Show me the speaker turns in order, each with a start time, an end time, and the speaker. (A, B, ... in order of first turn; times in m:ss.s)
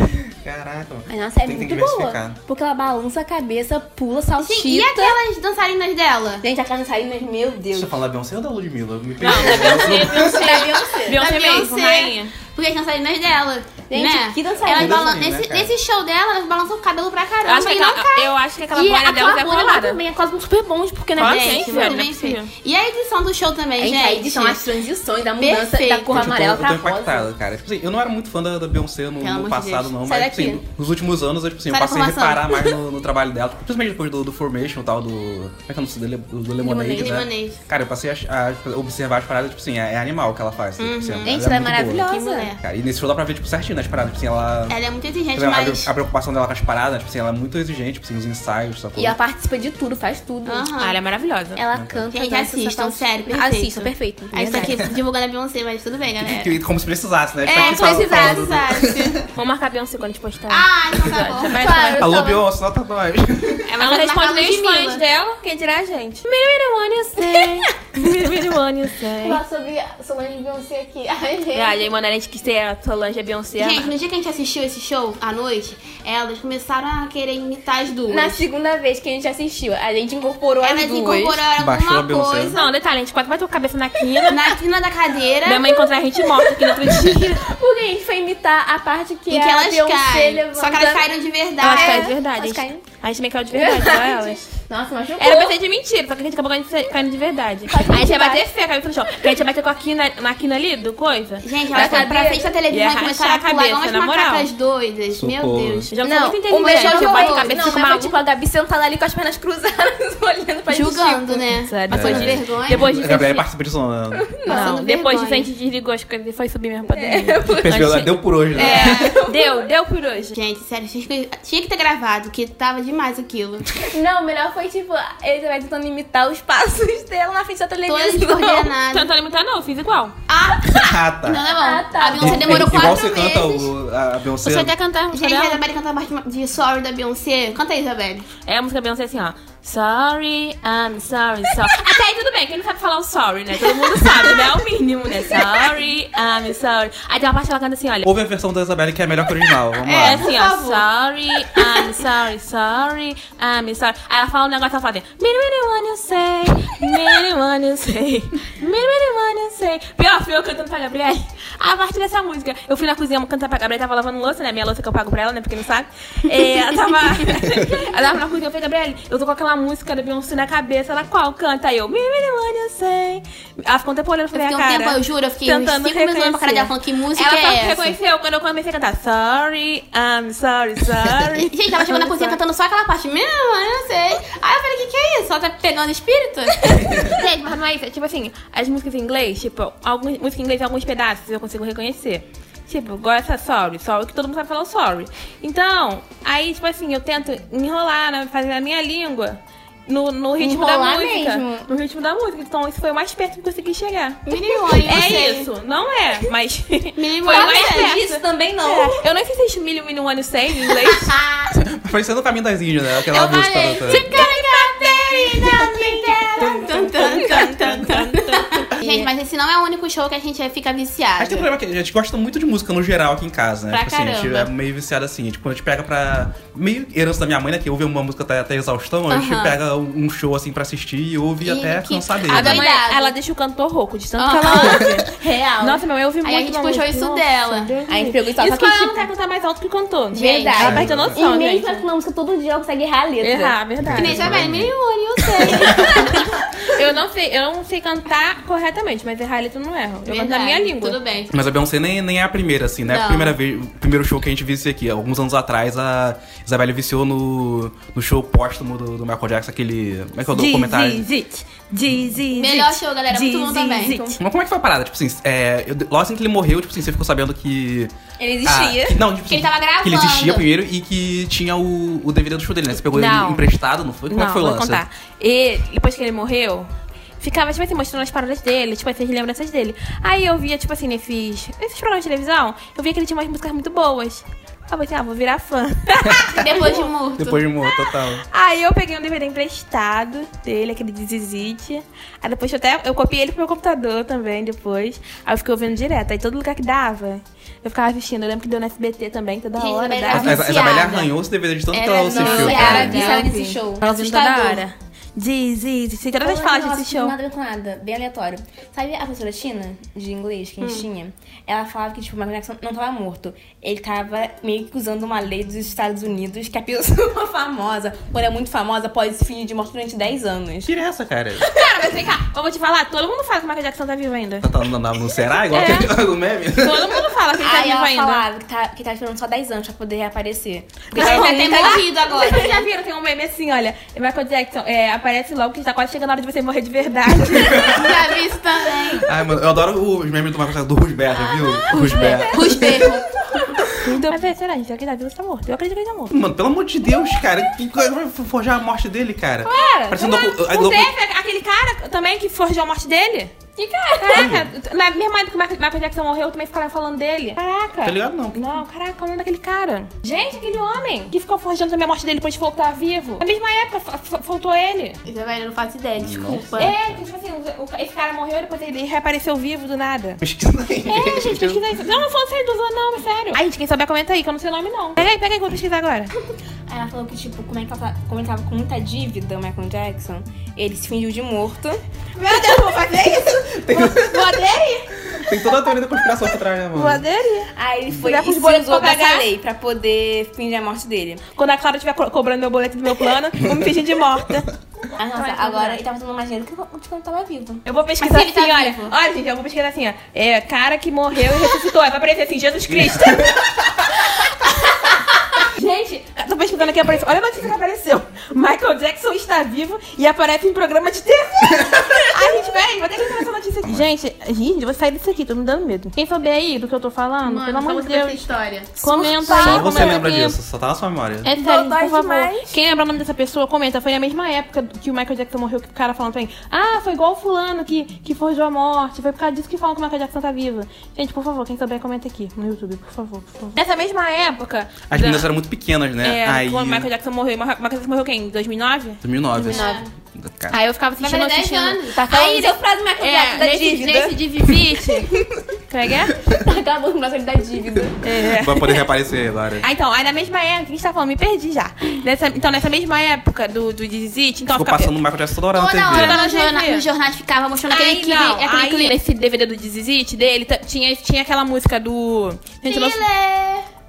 0:00.3-0:02.4 A
0:01.1-0:05.2 B
0:04.4-0:06.4 C
0:06.4-0:08.0 B
0:07.7-0:10.7 A
0:09.2-0:12.3 D
0:09.6-0:11.2 B
0:11.1-0:18.3 C
0:13.9-0:15.2 B
0:14.6-0:15.7 A
0:17.4-0:20.0 D
0:18.7-0:22.1 B
0:21.2-0:22.5 D
0:21.2-0:24.7 C
0:23.8-0:27.3 B
0:25.4-0:26.3 C
0:26.1-0:42.1 A
0:29.2-0:30.0 C
0:30.0-0:30.6 B
0:31.7-0:32.6 C
0:36.6-0:37.2 B
0:37.0-0:37.6 C
0:40.8-0:41.4 C
0:41.2-0:42.5 B
0:42.0-0:42.6 C
0:42.6-0:44.8 A
0:44.7-0:45.9 C
0:45.3-0:49.2 A
0:49.0-0:50.7 B
0:50.4-0:51.0 C
0:50.8-0:51.6 D
0:51.6-0:54.8 B
0:51.7-0:52.0 A
0:52.1-0:56.6 C
0:56.2-0:59.2 A
0:57.5-0:58.8 B
0:57.5-0:59.2 C
0:59.3-1:02.1 D
1:00.5-1:01.9 C
1:01.5-1:02.4 B
1:02.0-1:03.7 A
1:03.7-1:05.0 C
1:03.8-1:09.4 D
1:07.2-1:07.6 B
1:09.2-1:11.9 B
1:11.5-1:13.9 D
1:13.6-1:18.4 C
1:18.1-1:21.4 B
1:20.6-1:22.7 C
1:21.6-1:22.5 A
1:22.5-1:24.5 D
1:24.3-1:25.7 C
1:25.4-1:27.5 D
1:26.2-1:31.0 B
1:29.3-1:32.2 C
1:31.6-1:34.5 D
1:31.6-1:32.8 B
1:33.5-1:35.6 B
1:35.2-1:44.5 D
1:37.7-1:38.4 B
1:41.4-1:45.9 C
1:41.7-1:42.6 B
1:45.1-1:45.9 A
1:45.9-1:48.2 D
1:46.0-1:51.5 B
1:46.6-1:47.6 C
1:50.7-1:52.9 C
1:51.6-1:53.4 D
1:51.9-1:54.3 A
1:54.1-1:54.7 B
1:54.5-1:55.5 C
1:54.5-2:00.4 D
1:56.9-1:57.8 B
1:57.5-1:59.1 A
1:58.6-1:59.1 C
1:58.6-1:59.7 B
2:00.4-2:03.7 C
2:03.9-2:08.7 B
2:07.8-2:09.1 C
2:08.9-2:10.2 D
2:10.3-2:13.7 C
2:10.7-2:11.4 A
2:11.6-2:13.0 B
2:12.2-2:14.8 A
2:14.4-2:15.6 D
2:15.1-2:18.3 C
2:18.4-2:28.1 D
2:28.0-2:30.3 A
2:29.9-2:30.9 C
2:29.9-3:02.4 D
2:31.4-2:31.9 C
2:54.3-2:58.0 C
3:01.4-3:07.0 C
3:07.0-3:24.2 D
3:20.4-3:21.7 B
3:24.3-3:25.5 C
3:24.3-3:25.0 B
3:24.8-3:31.1 D
3:27.0-3:28.0 C
3:27.3-3:29.0 B
3:31.0-3:31.4 C
3:31.5-3:34.1 A
3:33.1-3:41.5 C
3:33.9-3:38.7 D
3:34.1-3:37.4 B
3:38.8-3:39.1 B
3:41.2-3:52.6 A
3:43.7-3:44.5 C
3:49.1-3:49.6 C
3:51.4-3:53.1 C
3:52.3-4:01.9 D
3:54.2-3:55.0 C
3:55.0-3:55.8 B
3:56.2-3:57.7 C
3:57.9-3:59.1 B
4:00.1-4:03.6 B
4:00.6-4:01.2 A
4:03.2-4:04.4 D
4:03.8-4:04.7 A
4:03.9-4:06.1 C
4:05.5-4:05.9 A
4:05.5-4:11.0 D
4:10.1-4:11.3 C
4:11.3-4:21.0 A
4:12.9-4:13.4 C
4:20.3-4:24.2 D
4:22.3-4:24.0 C
4:23.9-4:24.2 B
4:24.2-4:27.9 A
4:28.2-4:29.0 B
4:28.4-4:34.8 A
4:29.3-4:30.5 C
4:32.8-4:33.5 D
4:34.1-4:46.9 D
4:46.4-4:47.4 C
4:47.2-4:48.2 A
4:47.6-5:00.4 D
4:59.6-5:01.1 C
5:00.1-5:03.0 A
5:00.4-5:00.9 B
5:01.7-5:03.3 C
5:02.0-5:04.6 B
5:02.5-5:07.2 D
5:06.2-5:20.7 B
5:10.6-5:10.9 C
5:20.6-5:21.5 A
5:21.4-5:21.8 B
5:21.4-5:24.5 D
5:24.4-5:27.0 A
5:25.5-5:25.9 D
5:26.6-5:28.2 D
5:27.4-5:31.9 B
5:30.9-5:37.9 D
5:30.9-5:32.7 C
5:37.2-5:38.0 A
5:37.7-5:39.1 C
5:38.9-5:42.9 A
5:41.6-5:42.6 D
5:41.9-5:43.2 B
5:42.0-5:43.5 C
5:43.8-5:46.1 D
5:46.1-5:50.9 A
5:49.4-5:53.3 D
5:53.6-5:54.3 B
5:54.0-6:05.0 D
5:54.1-5:54.5 A
5:57.8-5:58.4 A
6:05.0-6:06.8 C
6:06.0-6:07.0 A
6:06.6-6:10.2 D
6:10.2-6:11.6 A
6:10.9-6:16.1 D
6:16.7-6:24.9 B
6:22.2-6:23.4 D
6:23.5-6:27.0 A
6:26.8-6:29.3 D
6:27.5-6:31.2 B
6:31.3-6:34.5 D
6:35.0-6:37.6 B
6:35.1-6:35.8 D
6:37.6-6:58.3 D
6:38.0-6:38.9 C
6:51.7-6:52.0 A
6:53.6-6:53.9 A
6:57.3-6:59.6 C
6:58.8-7:00.4 D
6:59.3-7:01.3 A
6:59.3-6:59.9 B
7:01.2-7:15.3 D
7:01.3-7:02.5 B
7:14.9-7:16.9 A
7:16.0-7:19.0 D
7:19.0-7:20.6 A
7:19.4-7:19.9 C
7:19.5-7:19.8 B
7:20.5-7:25.1 D
7:21.0-7:22.0 C
7:21.9-7:24.4 B
7:25.0-7:25.2 B
7:25.7-7:26.2 D
7:26.3-7:28.0 B
7:28.0-7:28.8 D
7:28.3-7:29.7 A
7:29.6-7:35.0 D
7:34.5-7:36.2 A
7:35.5-7:39.0 C
7:35.9-7:36.9 D
7:37.7-7:43.0 D
7:42.7-7:43.6 C